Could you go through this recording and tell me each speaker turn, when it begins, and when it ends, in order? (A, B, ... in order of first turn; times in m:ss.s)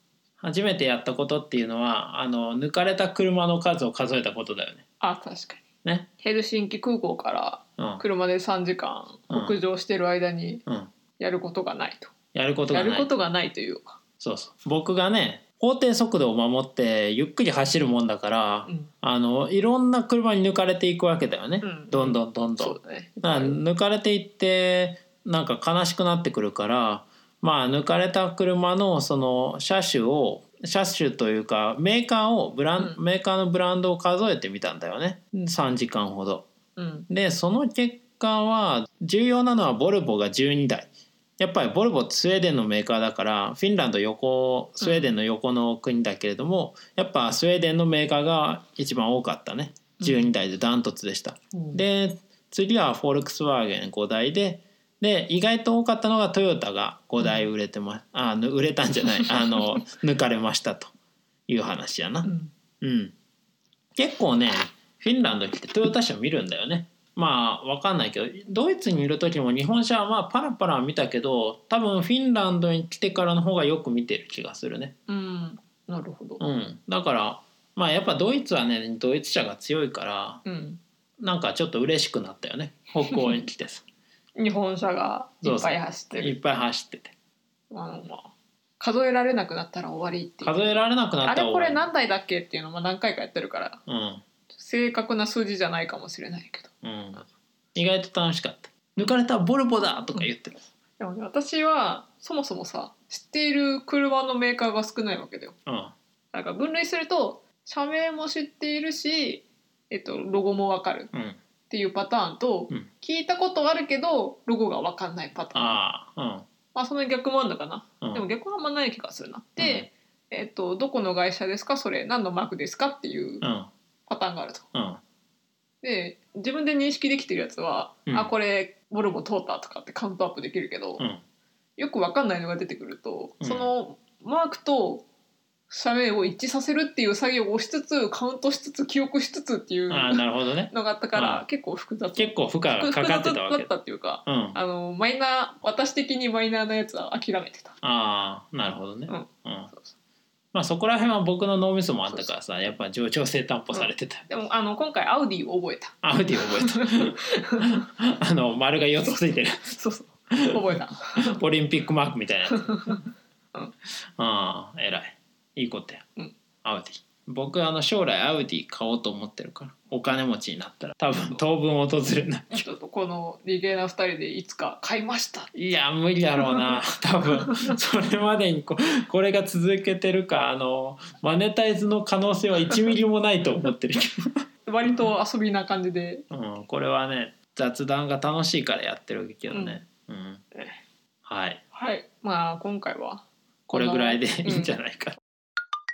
0:00.4-0:04.8 A
0:05.0-0:05.6 B
0:06.2-0:10.6 B
0:07.8-0:08.0 A
0:09.3-0:09.6 A
0:11.2-0:12.1 B
0:12.3-0:13.1 A
0:12.7-0:14.0 B
0:14.2-0:36.5 A
0:18.6-0:18.9 B
0:21.6-0:23.6 B
0:36.8-0:37.1 B
0:37.1-1:00.9 A
0:44.8-0:45.1 B
0:50.0-0:50.3 B
0:51.5-0:51.8 B
0:57.2-0:57.5 B
1:01.5-1:02.3 A
1:02.2-1:02.5 B
1:02.8-1:03.1 A
1:04.0-1:14.9 A
1:15.1-1:16.4 B
1:16.4-1:20.4 A
1:20.4-1:20.8 B
1:21.2-1:23.8 A
1:24.4-1:26.4 B
1:25.4-1:27.1 A
1:27.7-1:33.8 B
1:30.4-1:31.8 A
1:33.9-1:34.2 A
1:34.5-1:36.7 B
1:36.8-1:40.6 A
1:41.0-1:45.6 B
1:45.6-1:45.9 A
1:46.3-1:51.1 B
1:51.1-1:51.4 A
1:51.7-1:55.8 B
1:55.5-1:56.4 A
1:56.7-2:03.4 B
1:59.6-1:59.9 A
2:03.4-2:03.7 A
2:04.1-2:04.6 B
2:04.7-2:05.0 A
2:05.8-2:11.0 B
2:11.8-2:15.0 B
2:13.4-2:13.7 A
2:15.7-2:27.8 B
2:19.9-2:21.4 A
2:22.2-2:23.7 A
2:24.2-2:24.6 A
2:27.8-2:29.7 A
2:29.1-2:29.9 B
2:30.5-2:34.3 A
2:32.1-2:32.3 B
2:33.7-2:37.8 B
2:36.0-2:39.7 A
2:39.7-2:41.4 B
2:40.3-2:42.8 A
2:42.5-2:43.7 B
2:44.2-2:46.1 A
2:46.6-2:52.6 A
2:52.5-2:55.5 B
2:55.5-3:04.9 A
2:57.4-2:57.7 B
3:04.6-3:06.2 B
3:06.3-3:10.4 A
3:09.5-3:09.8 B
3:10.5-3:10.8 B
3:11.2-3:11.6 A
3:11.7-3:14.7 B
3:13.7-3:15.2 A